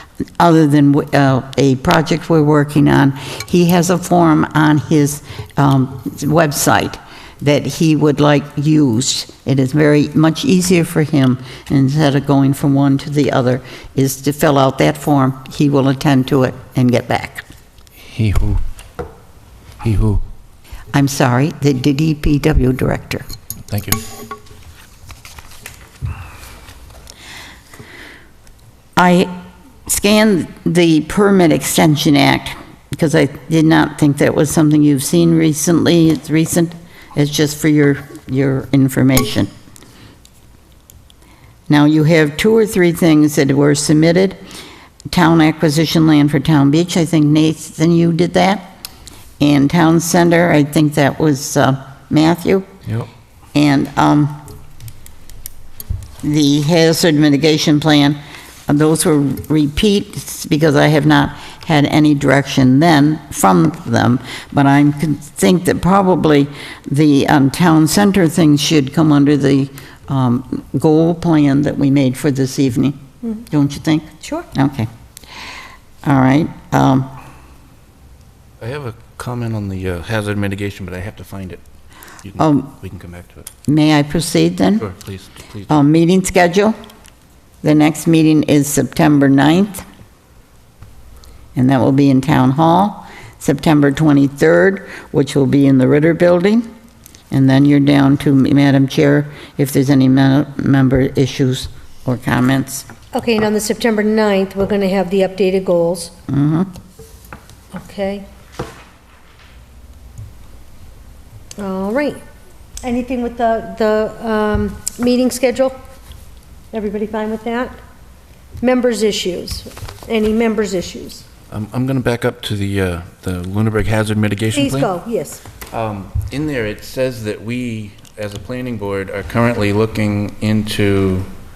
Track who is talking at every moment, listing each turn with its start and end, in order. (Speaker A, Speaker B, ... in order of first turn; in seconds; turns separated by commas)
Speaker A: 0.4-17.4, Speaker B: 18.0-18.6, Speaker B: 19.8-20.2, Speaker A: 20.9-23.2, Speaker B: 23.7-24.0, Speaker A: 29.0-29.3, Speaker A: 29.9-39.5, Speaker A: 41.7-44.4, Speaker A: 45.1-48.7, Speaker A: 49.4-52.7, Speaker A: 53.5-54.4, Speaker A: 56.2-74.9, Speaker C: 74.2-74.5, Speaker A: 76.0-77.1, Speaker B: 78.6-81.6, Speaker B: 82.2-83.5, Speaker A: 82.4-82.7, Speaker A: 83.7-84.9, Speaker B: 84.8-85.7, Speaker A: 85.7-86.8, Speaker A: 87.6-89.8, Speaker A: 91.5-96.6, Speaker A: 97.3-102.9, Speaker C: 103.1-106.1, Speaker A: 106.3-106.7, Speaker C: 107.7-108.2, Speaker C: 111.6-112.2, Speaker C: 112.8-115.8, Speaker C: 116.7-117.8, Speaker C: 118.6-121.2, Speaker B: 121.5-124.9, Speaker C: 124.5-125.4, Speaker B: 125.7-131.3